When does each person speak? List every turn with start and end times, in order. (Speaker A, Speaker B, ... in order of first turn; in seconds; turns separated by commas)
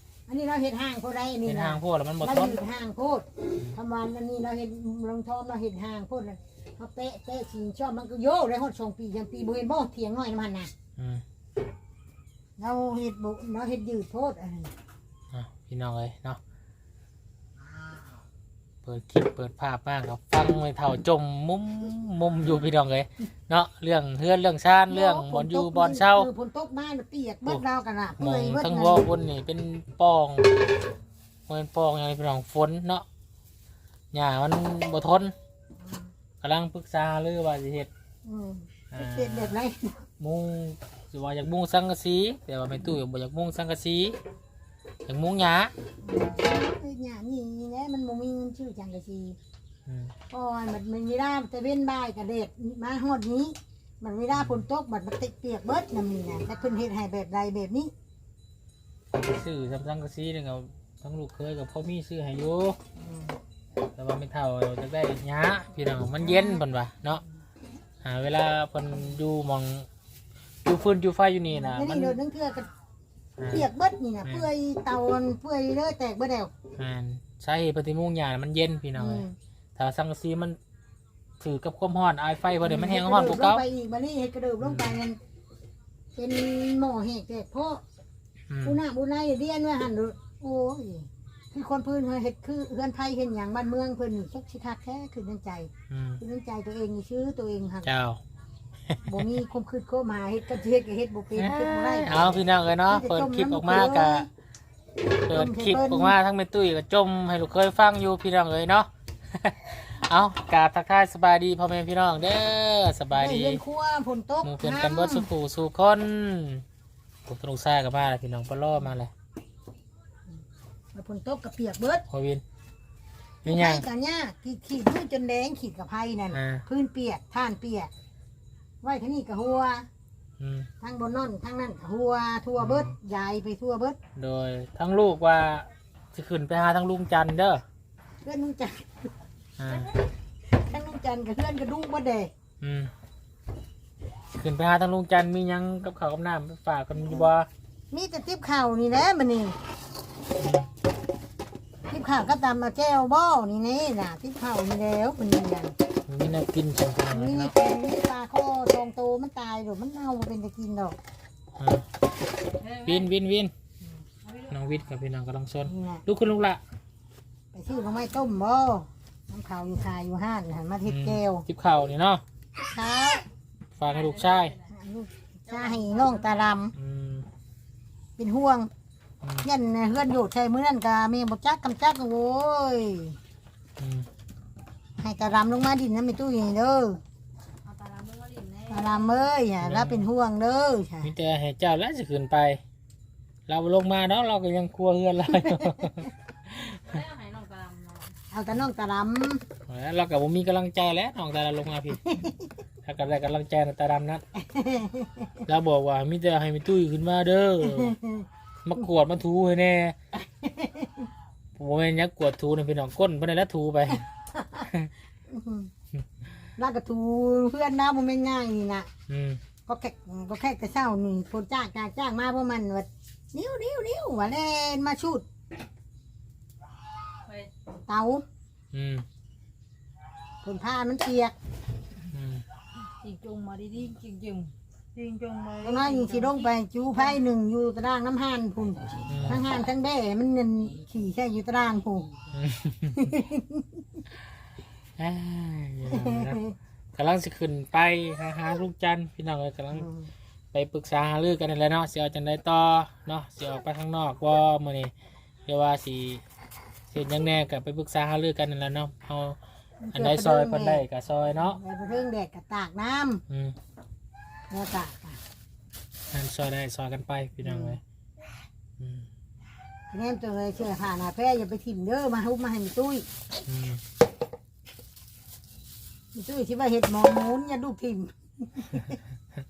Speaker A: 0.3-10.7, Speaker B: 1.5-2.6, Speaker B: 11.0-11.2, Speaker A: 12.6-14.7, Speaker B: 15.3-16.4, Speaker B: 18.8-26.3, Speaker A: 24.9-29.1, Speaker B: 28.2-30.5, Speaker B: 31.5-33.0, Speaker B: 34.1-35.3, Speaker A: 35.8-36.1, Speaker B: 36.4-37.9, Speaker A: 38.2-40.1, Speaker B: 38.9-39.6, Speaker B: 40.2-44.2, Speaker B: 45.1-45.7, Speaker A: 46.0-49.4, Speaker B: 49.9-50.1, Speaker A: 50.3-57.9, Speaker B: 54.3-54.6, Speaker B: 59.1-62.8, Speaker A: 63.0-63.4, Speaker B: 64.0-67.2, Speaker A: 66.2-66.6, Speaker B: 68.0-69.9, Speaker B: 70.7-72.2, Speaker A: 71.6-72.7, Speaker B: 73.4-73.7, Speaker A: 73.5-76.5, Speaker B: 76.8-80.6, Speaker A: 79.0-79.4, Speaker B: 81.4-83.7, Speaker A: 82.6-85.2, Speaker B: 84.6-85.0, Speaker A: 86.2-87.8, Speaker B: 88.5-88.8, Speaker A: 88.6-97.9, Speaker B: 95.9-96.2, Speaker B: 97.8-98.2, Speaker B: 98.9-99.3, Speaker A: 99.0-104.3, Speaker B: 101.3-104.3, Speaker A: 105.2-106.2, Speaker B: 105.3-113.6, Speaker A: 113.2-115.3, Speaker B: 114.4-116.6, Speaker B: 117.2-119.1, Speaker A: 120.9-122.0, Speaker B: 122.1-122.4, Speaker B: 123.4-123.8, Speaker A: 123.5-127.9, Speaker B: 126.3-126.6, Speaker A: 128.8-129.9, Speaker B: 130.4-130.7, Speaker A: 130.8-134.0, Speaker B: 132.6-133.0, Speaker B: 134.2-137.6, Speaker A: 138.2-139.1, Speaker B: 139.6-139.9, Speaker A: 140.5-142.3, Speaker B: 142.6-142.9, Speaker B: 144.3-147.5, Speaker A: 147.9-149.6, Speaker B: 150.4-150.7, Speaker A: 151.9-155.8, Speaker B: 156.1-157.5, Speaker A: 157.1-161.0, Speaker B: 161.6-161.9, Speaker C: 162.6-163.0, Speaker B: 162.8-163.5, Speaker B: 164.5-166.6, Speaker A: 165.6-166.1, Speaker A: 167.5-171.4, Speaker B: 170.9-172.2, Speaker A: 172.6-173.2, Speaker B: 173.8-174.6, Speaker C: 174.1-174.5, Speaker A: 174.6-176.8, Speaker C: 175.5-176.3, Speaker B: 176.8-177.3, Speaker A: 178.2-178.7, Speaker A: 179.4-183.2, Speaker B: 183.8-184.1, Speaker A: 185.0-187.0, Speaker C: 187.7-189.1, Speaker A: 188.7-191.1, Speaker B: 189.6-190.1, Speaker B: 191.0-192.6, Speaker B: 193.5-197.0, Speaker A: 195.5-196.0, Speaker C: 196.9-198.1, Speaker A: 198.3-199.4, Speaker B: 199.7-202.2, Speaker A: 202.1-202.5, Speaker B: 202.8-204.2, Speaker A: 204.4-205.4, Speaker B: 205.5-208.0, Speaker A: 207.6-208.3, Speaker B: 208.6-210.0, Speaker A: 210.2-211.1, Speaker B: 211.6-214.1, Speaker A: 214.3-214.7, Speaker A: 215.3-215.7, Speaker A: 216.6-218.9, Speaker B: 219.1-219.4, Speaker A: 219.7-225.3, Speaker A: 227.9-228.2, Speaker B: 228.7-229.1, Speaker A: 230.4-231.4, Speaker B: 232.1-232.4, Speaker C: 233.0-236.4, Speaker A: 235.6-242.1, Speaker B: 239.1-239.5, Speaker B: 242.3-243.2, Speaker A: 242.9-244.0, Speaker B: 245.0-246.4, Speaker A: 245.9-246.5, Speaker B: 246.9-249.9, Speaker A: 249.7-250.1, Speaker B: 250.5-254.9, Speaker B: 255.5-256.2, Speaker B: 256.9-259.4, Speaker A: 259.8-260.8, Speaker B: 259.9-261.6, Speaker A: 261.4-263.2, Speaker B: 263.3-263.6, Speaker A: 264.5-265.2, Speaker B: 266.1-267.8, Speaker A: 267.4-267.8, Speaker B: 268.8-269.1, Speaker A: 269.9-273.1, Speaker B: 273.5-273.8, Speaker A: 276.1-279.0